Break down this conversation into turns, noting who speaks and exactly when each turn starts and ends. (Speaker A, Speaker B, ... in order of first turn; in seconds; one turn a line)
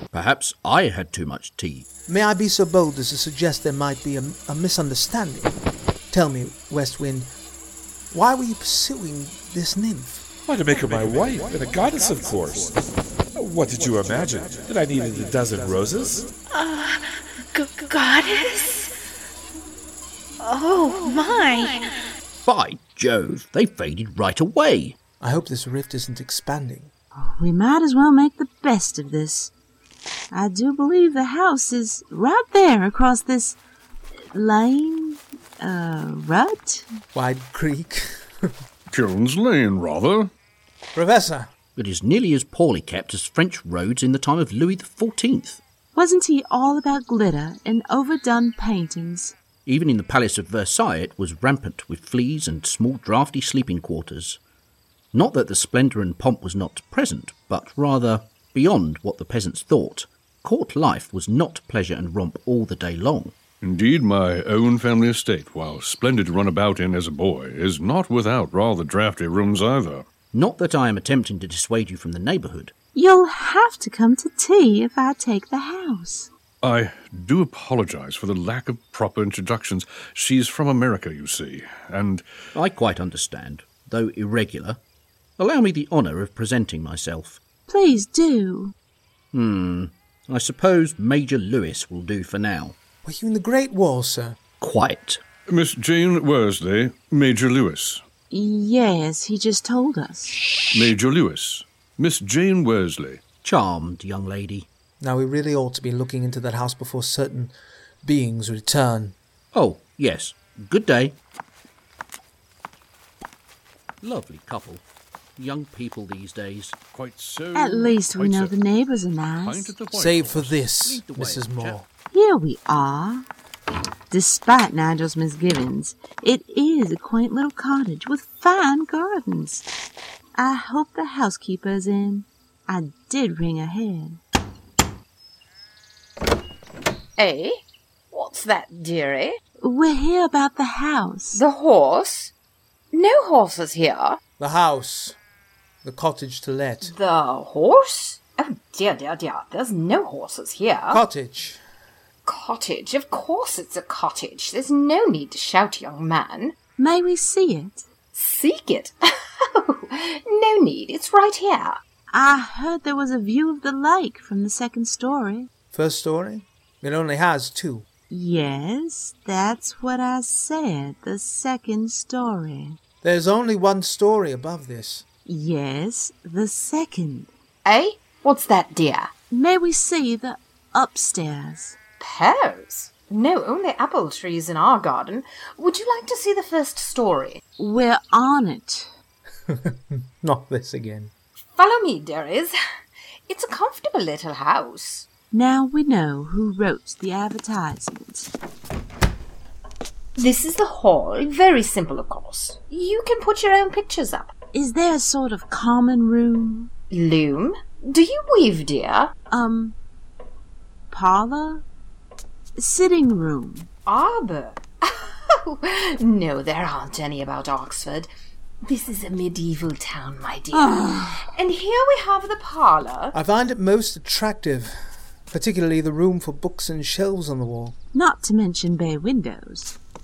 Speaker A: 0.1-1.9
Speaker B: 2.1-5.6
Speaker B: 6.1-7.3
Speaker B: 8.1-10.2
Speaker C: 10.5-12.8
Speaker C: 13.3-16.3
Speaker D: 16.5-18.9
Speaker D: 20.4-22.1
Speaker A: 22.4-25.0
Speaker B: 25.2-26.9
Speaker E: 27.1-29.5
Speaker E: 30.3-33.6
Speaker E: 34.3-36.9
Speaker B: 37.1-38.5
Speaker F: 38.9-40.3
Speaker B: 40.9-41.5
Speaker A: 41.8-45.6
Speaker E: 46.0-49.4
Speaker A: 49.7-54.4
Speaker A: 55.1-63.4
Speaker F: 63.6-70.1
Speaker A: 70.3-72.8
Speaker E: 72.9-76.3
Speaker F: 76.6-82.2
Speaker A: 82.5-84.8
Speaker A: 85.4-87.4
Speaker E: 87.7-88.7
Speaker A: 89.3-92.8
Speaker B: 93.0-94.4
Speaker A: 94.6-95.2
Speaker F: 95.5-98.0
Speaker E: 98.3-100.4
Speaker F: 100.7-103.2
Speaker A: 103.4-104.7
Speaker B: 105.0-109.2
Speaker A: 109.5-111.2
Speaker A: 114.0-114.8
Speaker A: 115.4-116.8
Speaker F: 116.9-118.6
Speaker E: 117.5-119.7
Speaker F: 119.4-120.7
Speaker B: 119.9-121.9
Speaker A: 120.7-121.8
Speaker E: 122.1-123.2
Speaker E: 124.1-129.7
Speaker E: 130.4-134.2
Speaker G: 137.2-137.6
Speaker G: 138.1-139.4
Speaker E: 139.6-141.4
Speaker G: 141.3-142.3
Speaker G: 142.9-144.2
Speaker B: 144.4-145.2
Speaker B: 145.8-146.9
Speaker G: 146.8-151.0
Speaker B: 150.9-151.6
Speaker G: 152.3-156.6
Speaker E: 156.8-157.9
Speaker G: 158.1-158.9
Speaker G: 159.4-161.8
Speaker E: 162.1-165.5
Speaker B: 165.7-167.9
Speaker E: 168.1-172.8
Speaker B: 173.0-175.1
Speaker E: 175.3-177.3
Speaker G: 177.7-179.1
Speaker E: 179.3-181.8
Speaker G: 182.0-187.4
Speaker E: 187.6-188.9
Speaker B: 189.5-191.1
Speaker G: 191.6-192.5
Speaker G: 193.3-195.1
Speaker E: 195.3-198.3
Speaker G: 200.2-204.3
Speaker E: 204.5-206.7
Speaker G: 206.9-209.1
Speaker E: 209.3-209.8
Speaker E: 210.9-211.7
Speaker E: 212.6-213.7
Speaker G: 213.9-218.1
Speaker G: 218.7-223.2
Speaker E: 220.5-221.3
Speaker B: 223.1-224.8
Speaker B: 225.3-227.8
Speaker E: 227.9-229.8